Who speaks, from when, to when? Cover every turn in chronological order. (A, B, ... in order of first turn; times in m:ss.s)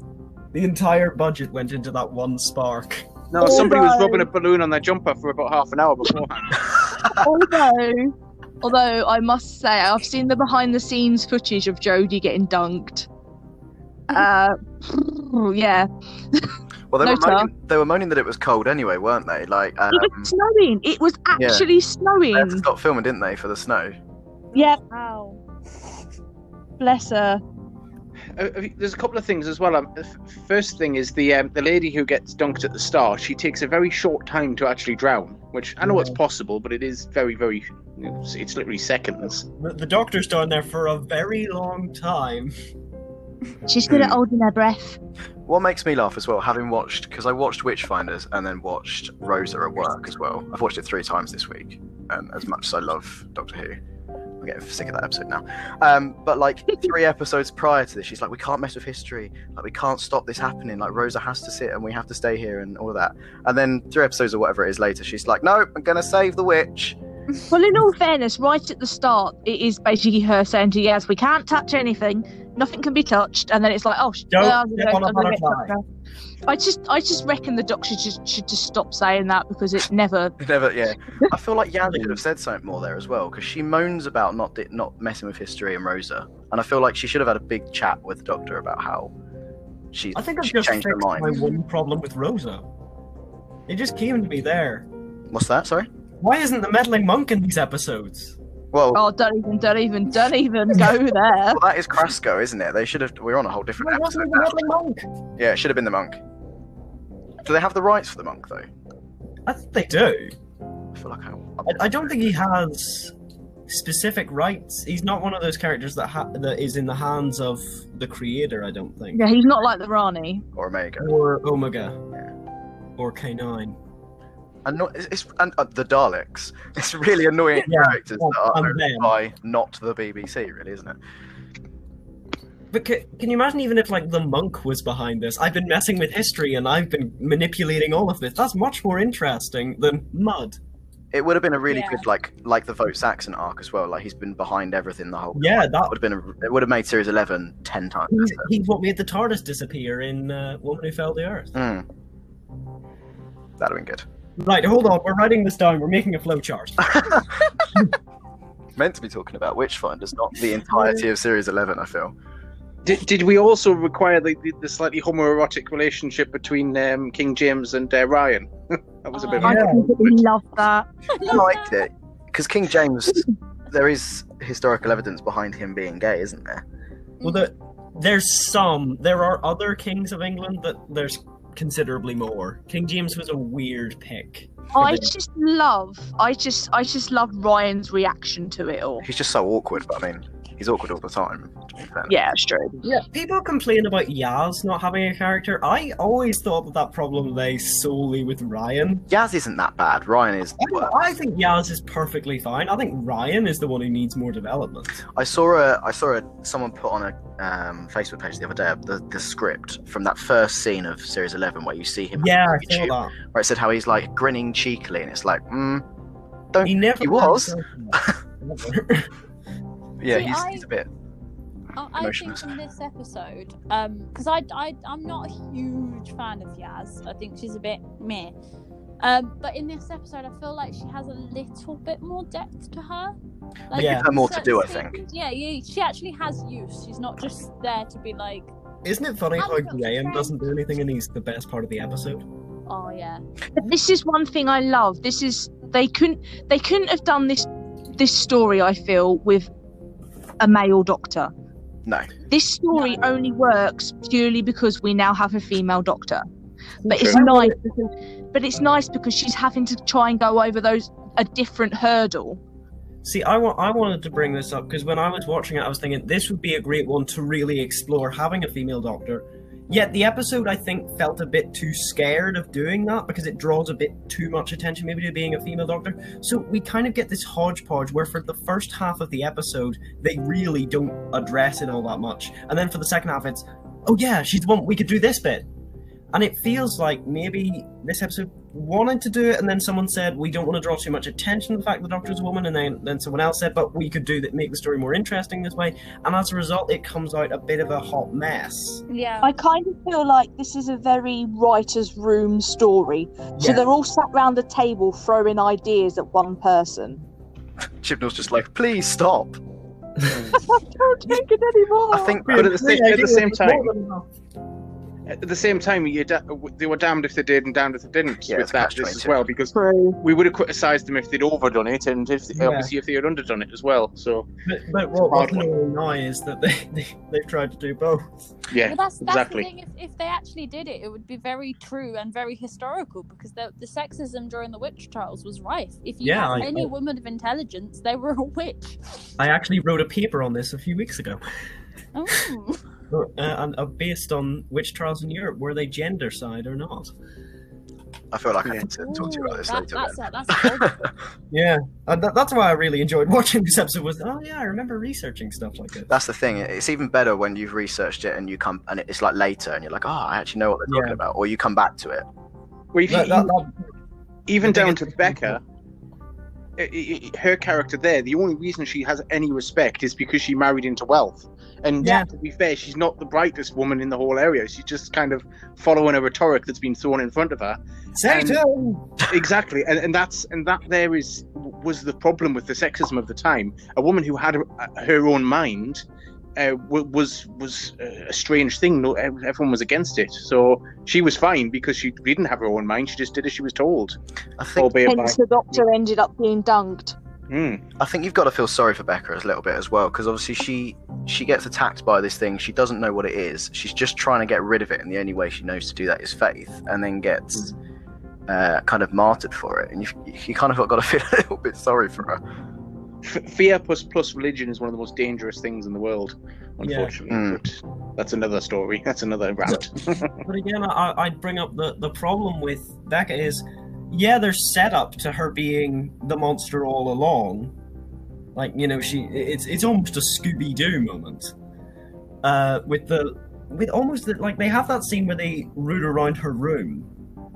0:00.5-0:03.5 A
0:03.3-0:06.8 B
0:03.4-0:04.3 C
0:07.1-0:13.1 C
0:14.1-0:16.5 C
0:16.9-0:20.3 D
0:17.0-0:17.5 C
0:19.9-0:22.6 C
0:21.4-0:21.6 D
0:22.3-0:24.0 D
0:24.5-0:25.4 E
0:24.5-0:24.8 C
0:26.8-0:27.4 C
0:28.3-0:39.4 B
0:35.8-0:36.2 A
0:39.5-0:42.5 A
0:43.7-0:45.0 C
0:43.9-0:44.2 D
0:45.4-0:53.8 D
0:54.4-1:07.0 D
1:07.5-1:15.8 C
1:14.3-1:15.8 A
1:16.5-1:20.3 C
1:20.4-1:29.1 D
1:21.9-1:22.2 A
1:29.9-1:31.4 D
1:30.1-1:32.6 A
1:33.7-1:34.9 A
1:35.3-1:35.9 D
1:36.2-1:38.4 A
1:38.7-1:39.0 D
1:38.9-1:41.6 C
1:41.5-1:44.5 D
1:43.8-1:45.0 A
1:45.4-1:46.2 D
1:47.4-1:48.7 D
1:49.4-1:50.3 A
1:50.9-1:52.4 D
1:51.6-1:53.1 A
1:53.7-1:59.2 A
1:59.1-2:00.4 C
2:00.5-2:01.1 D
2:01.0-2:02.0 A
2:03.0-2:03.8 A
2:04.6-2:11.0 D
2:07.6-2:09.1 A
2:12.7-2:20.6 A
2:21.1-2:28.5 D
2:21.7-2:22.0 E
2:25.3-2:25.9 A
2:28.1-2:31.5 A
2:31.5-2:31.9 D
2:33.6-2:34.0 D
2:34.4-2:37.2 A
2:36.9-2:37.2 D
2:38.8-2:42.1 D
2:40.7-2:41.0 A
2:42.8-2:50.2 B
2:49.1-2:49.5 E
2:49.4-2:49.9 A
2:49.4-2:50.8 C
2:51.1-2:51.7 E
2:51.2-2:56.6 D
2:57.2-2:57.5 E
2:57.2-3:05.1 A
3:04.7-3:09.0 C
3:09.0-3:12.1 D
3:12.1-3:12.8 C
3:12.8-3:19.0 A
3:19.1-3:20.9 D
3:20.6-3:25.0 A
3:25.1-3:35.9 D
3:32.2-3:33.1 A
3:36.5-3:38.2 D
3:36.6-3:39.1 A
3:40.0-3:40.9 D
3:40.1-3:40.6 E
3:41.8-3:48.3 E
3:42.0-3:42.5 D
3:49.0-3:53.1 E
3:53.7-3:58.5 E
3:53.7-3:54.1 A
3:53.7-3:55.0 D
3:58.8-4:02.2 A
3:59.4-4:00.4 E
4:02.7-4:03.2 E
4:03.6-4:09.5 C
4:10.4-4:11.3 C
4:11.8-4:12.1 D
4:12.3-4:16.2 C
4:16.8-4:17.6 A
4:16.9-4:22.4 C
4:23.0-4:45.5 A
4:46.1-4:58.8 A
4:58.9-4:59.3 E
4:59.2-5:07.0 C
5:03.4-5:03.6 A
5:07.8-5:09.4 D
5:10.1-5:10.4 B
5:10.3-5:12.2 C
5:11.9-5:12.5 D
5:12.2-5:14.1 A
5:12.3-5:13.7 B
5:15.1-5:24.3 B
5:18.3-5:19.1 D
5:19.5-5:20.0 C
5:22.3-5:22.7 A
5:24.4-5:28.3 A
5:25.0-5:25.5 B
5:28.5-5:29.5 B
5:28.6-5:39.0 E
5:36.0-5:36.7 A
5:39.2-5:41.2 A
5:41.9-5:42.6 E
5:42.9-5:46.9 A
5:48.1-5:50.9 D
5:48.7-5:50.9 E
5:51.3-5:55.9 A
5:55.9-6:02.0 D
6:00.7-6:01.0 A
6:02.7-6:03.3 B
6:02.9-6:03.7 A
6:04.3-6:05.4 B
6:04.4-6:05.3 A
6:06.6-6:18.4 B
6:11.8-6:12.1 A
6:18.0-6:18.9 A
6:19.1-6:25.8 B
6:26.4-6:34.0 B
6:34.4-6:34.8 D
6:34.6-6:35.6 B
6:34.8-6:37.0 C
6:37.3-6:37.6 B
6:37.8-6:47.5 D
6:48.3-6:52.2 D
6:53.0-7:00.2 B
6:56.6-6:56.9 A
6:57.1-6:57.4 D
7:00.2-7:07.5 A
7:08.3-7:11.3 A
7:12.2-7:16.9 A